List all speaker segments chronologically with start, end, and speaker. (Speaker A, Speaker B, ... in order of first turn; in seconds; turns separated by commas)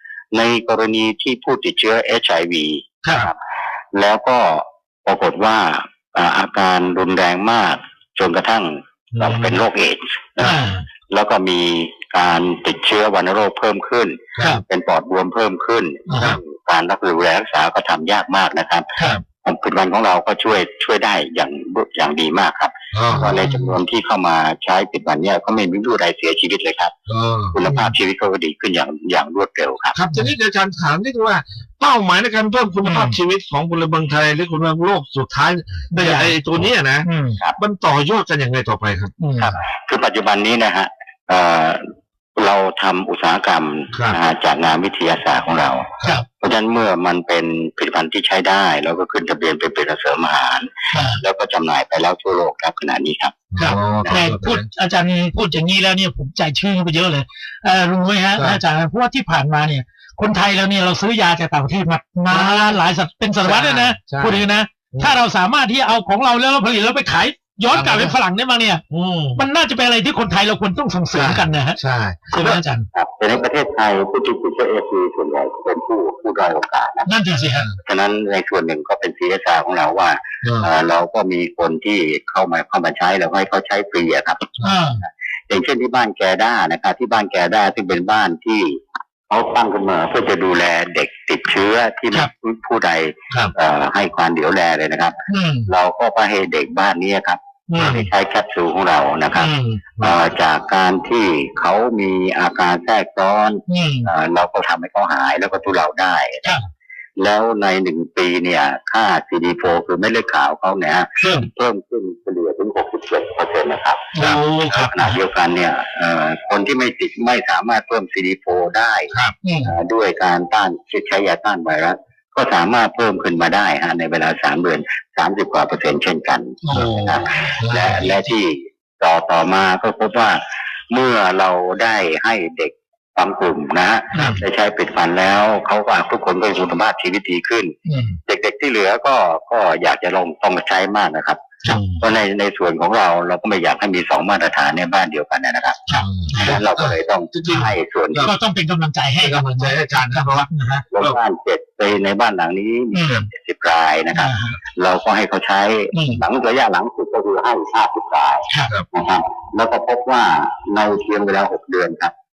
Speaker A: 0.3-3.4, Speaker A: 3.9-10.6, Speaker B: 9.2-9.6, Speaker C: 10.4-10.8, Speaker A: 11.1-18.9, Speaker C: 14.4-14.6, Speaker C: 16.1-16.4, Speaker A: 19.4-26.9, Speaker B: 22.9-23.3, Speaker C: 23.1-23.8, Speaker B: 27.1-27.8, Speaker A: 27.5-30.0, Speaker B: 29.9-37.1, Speaker C: 32.8-33.2, Speaker C: 35.9-37.4, Speaker B: 37.6-39.1, Speaker C: 39.2-39.5, Speaker A: 39.4-41.8, Speaker A: 42.4-45.9, Speaker A: 46.4-54.2, Speaker C: 50.9-51.2, Speaker B: 53.5-54.6, Speaker C: 53.5-68.8, Speaker B: 58.4-58.6, Speaker B: 62.3-62.8, Speaker B: 63.4-65.2, Speaker B: 67.7-68.1, Speaker B: 68.9-69.4, Speaker C: 69.3-71.8, Speaker B: 71.1-72.6, Speaker C: 72.3-72.8, Speaker A: 72.9-77.1, Speaker C: 77.0-77.7, Speaker A: 77.8-106.5, Speaker B: 80.4-80.7, Speaker C: 84.6-85.0, Speaker C: 95.3-95.7, Speaker C: 97.7-98.0, Speaker C: 99.4-99.8, Speaker B: 99.8-100.1, Speaker C: 103.7-104.1, Speaker A: 107.2-114.1, Speaker C: 111.2-111.5, Speaker C: 114.1-115.2, Speaker A: 114.7-137.7, Speaker C: 119.4-119.7, Speaker C: 126.6-127.1, Speaker B: 126.7-128.1, Speaker C: 134.1-134.4, Speaker C: 137.8-138.1, Speaker A: 138.3-141.4, Speaker C: 141.6-142.0, Speaker A: 142.0-145.8, Speaker C: 145.9-146.6, Speaker B: 145.9-148.3, Speaker A: 146.4-148.3, Speaker C: 148.2-150.8, Speaker B: 149.2-150.5, Speaker A: 150.9-162.1, Speaker C: 152.9-153.3, Speaker C: 154.1-154.6, Speaker C: 155.9-156.2